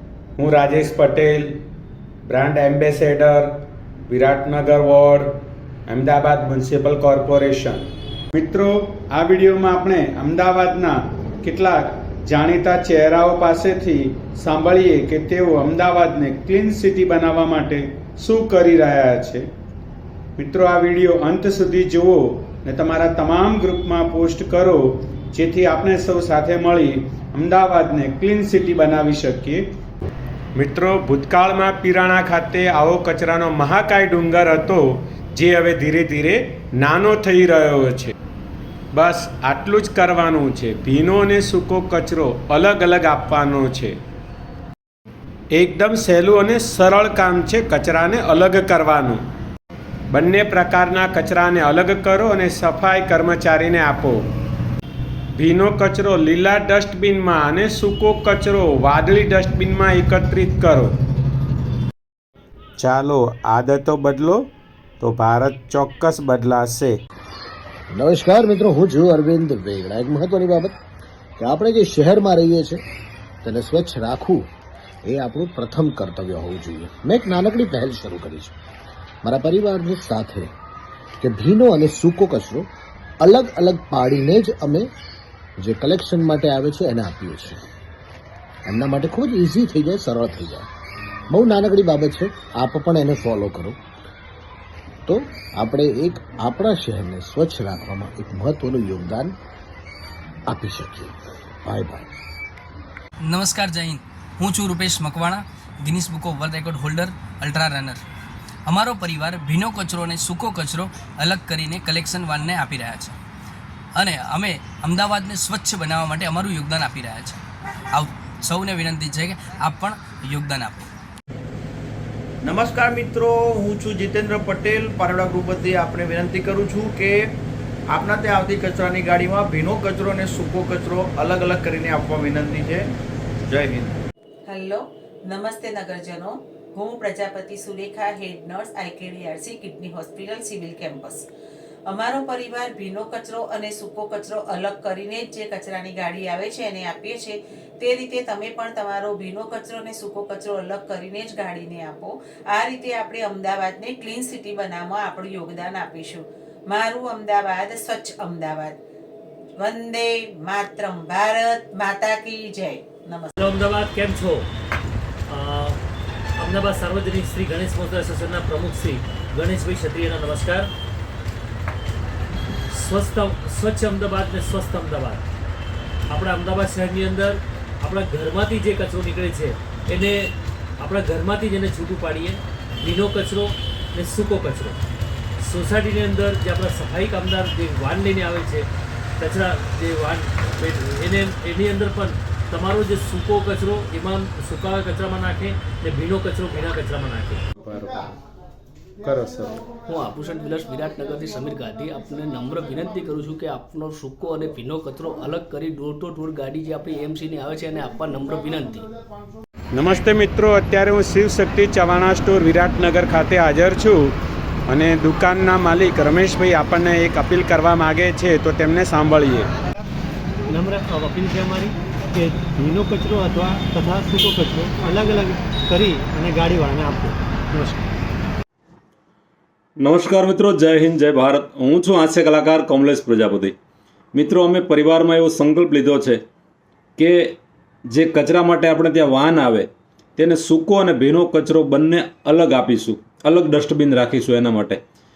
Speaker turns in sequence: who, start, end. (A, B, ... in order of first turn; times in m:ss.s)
0:00.4-0:01.5 A
0:02.2-0:03.5 A
0:04.1-0:05.3 A
0:05.9-0:07.8 A
0:08.3-0:19.4 A
0:20.4-0:29.6 A
0:30.6-0:38.1 A
0:38.9-0:44.0 A
0:45.5-0:49.2 A
0:50.1-0:54.2 A
0:55.4-1:00.9 A
1:02.8-1:04.4 A
1:05.0-1:07.0 A
1:07.9-1:10.8 B
1:11.4-1:12.8 B
1:13.4-1:14.4 B
1:15.0-1:18.5 B
1:19.2-1:20.5 B
1:21.2-1:22.7 B
1:23.2-1:24.9 B
1:25.6-1:27.6 B
1:28.6-1:30.6 B
1:31.3-1:33.8 B
1:35.0-1:39.3 B
1:40.5-1:41.1 B
1:41.6-1:42.1 B
1:43.2-1:48.0 C
1:48.6-1:53.2 C
1:54.0-1:57.4 C
1:57.9-2:00.9 C
2:02.4-2:07.1 D
2:07.9-2:12.8 D
2:13.5-2:13.9 D
2:14.5-2:21.2 E
2:21.9-2:38.8 E
2:39.6-2:43.3 E
2:43.4-2:44.5 F
2:45.3-2:45.8 F
2:46.4-2:50.7 F
2:52.7-2:55.2 F
2:56.1-3:04.8 F
3:05.4-3:08.7 F
3:09.2-3:17.4 F
3:17.6-3:18.1 A
3:19.0-3:19.6 A
3:19.9-3:28.8 G
3:29.7-3:34.1 A
3:34.7-3:39.5 A
3:40.5-3:47.8 H
3:49.8-3:53.5 I
3:54.1-3:56.2 I
3:57.0-4:04.8 I